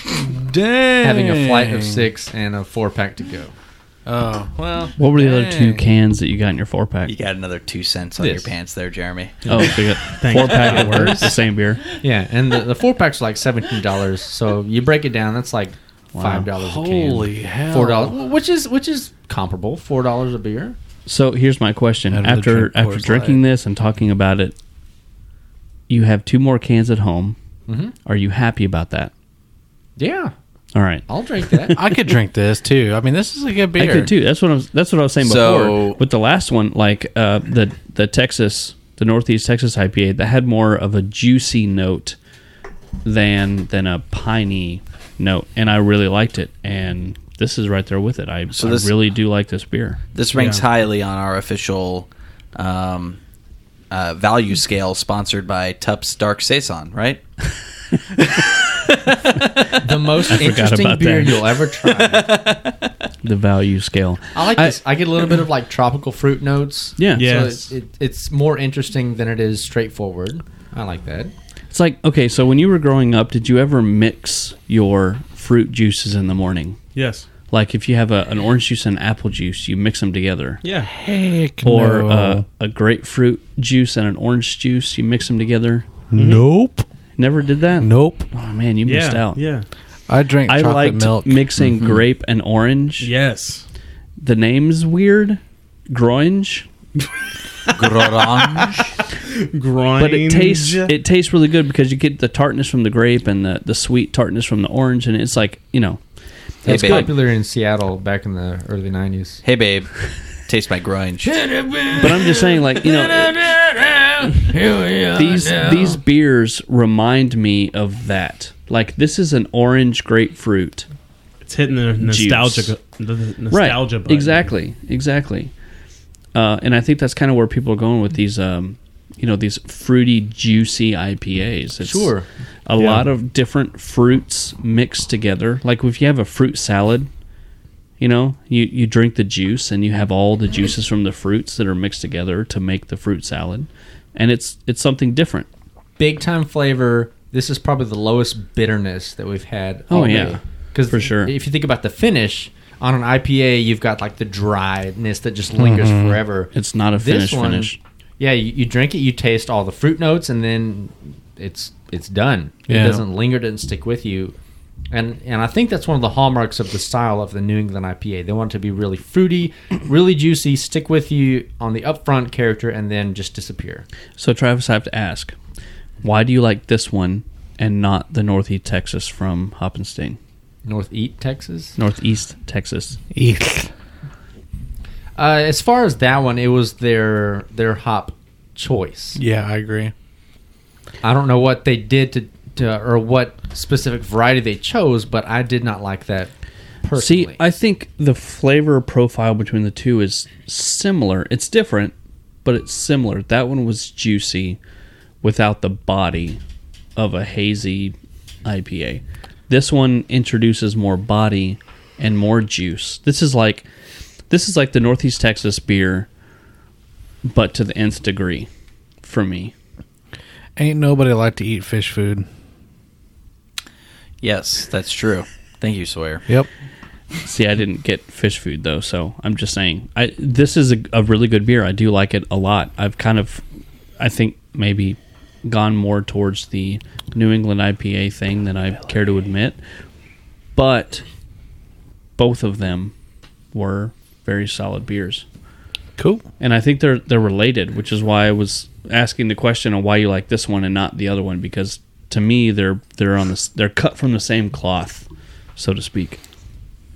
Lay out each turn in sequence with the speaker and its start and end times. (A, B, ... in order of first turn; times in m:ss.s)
0:00.3-0:02.1 A
0:01.0-0:03.5 B
0:04.1-0:05.9 A
0:05.0-0:07.2 C
0:07.0-0:10.0 D
0:08.2-0:08.5 B
0:09.5-0:11.8 C
0:10.2-0:11.4 E
0:12.0-0:20.8 B
0:16.1-0:16.5 C
0:16.5-0:18.2 A
0:21.1-0:24.6 C
0:22.1-0:23.4 A
0:25.9-0:27.4 C
0:27.7-0:27.9 B
0:28.1-0:29.1 C
0:30.0-0:30.3 B
0:30.7-0:31.6 C
0:31.1-0:31.8 B
0:31.7-0:34.1 A
0:33.8-0:42.2 C
0:35.2-0:36.0 D
0:43.0-0:50.0 C
0:48.5-0:48.9 D
0:50.2-0:53.2 D
0:50.4-0:50.6 E
0:53.9-0:57.2 D
0:59.8-1:02.3 B
1:00.2-1:01.6 C
1:02.0-1:02.9 D
1:03.2-1:04.8 C
1:04.3-1:11.3 B
1:07.0-1:07.3 C
1:07.2-1:07.7 E
1:11.7-1:16.8 C
1:17.0-1:17.3 E
1:17.5-1:20.6 C
1:20.6-1:20.9 E
1:20.9-1:22.4 A
1:21.6-1:25.9 C
1:26.1-1:26.9 A
1:26.2-1:26.5 E
1:27.2-1:29.4 C
1:27.8-1:28.3 A
1:28.8-1:29.7 E
1:30.1-1:31.7 A
1:30.5-1:33.1 C
1:33.0-1:33.6 E
1:34.2-1:36.7 C
1:37.7-1:38.9 D
1:37.8-1:40.9 E
1:40.0-1:46.0 C
1:46.6-1:47.1 C
1:46.6-1:49.4 B
1:46.7-1:47.1 D
1:49.4-1:49.9 D
1:50.5-1:51.5 D
1:51.6-1:52.0 B
1:52.0-1:53.4 C
1:53.4-1:53.7 B
1:54.4-1:55.7 B
1:55.1-2:00.9 C
2:01.4-2:04.5 E
2:02.0-2:02.8 C
2:03.5-2:05.5 C
2:06.3-2:12.1 C
2:11.8-2:12.3 B
2:12.7-2:17.1 C
2:18.0-2:25.5 C
2:26.0-2:44.4 B
2:29.9-2:31.3 C
2:35.6-2:36.2 A
2:36.5-2:37.8 C
2:42.7-2:43.0 A
2:44.9-2:53.8 B
2:54.2-2:55.4 C
2:56.0-3:00.2 C
3:00.6-3:01.7 B
3:01.8-3:03.0 C
3:03.1-3:03.7 A
3:05.2-3:09.2 B
3:09.2-3:09.9 A
3:11.0-3:16.3 B
3:16.8-3:17.4 B
3:17.0-3:21.9 C
3:22.4-3:24.6 C
3:25.2-3:26.4 C
3:27.0-3:33.7 C
3:34.3-3:36.1 C
3:37.3-3:38.5 C
3:39.0-3:39.5 C
3:40.6-3:42.3 A
3:44.2-3:46.3 D
3:47.2-3:53.4 C
3:54.0-3:59.6 C
4:00.6-4:01.0 C
4:02.2-4:02.9 C
4:03.5-4:05.2 C
4:06.0-4:06.2 A
4:06.4-4:16.2 C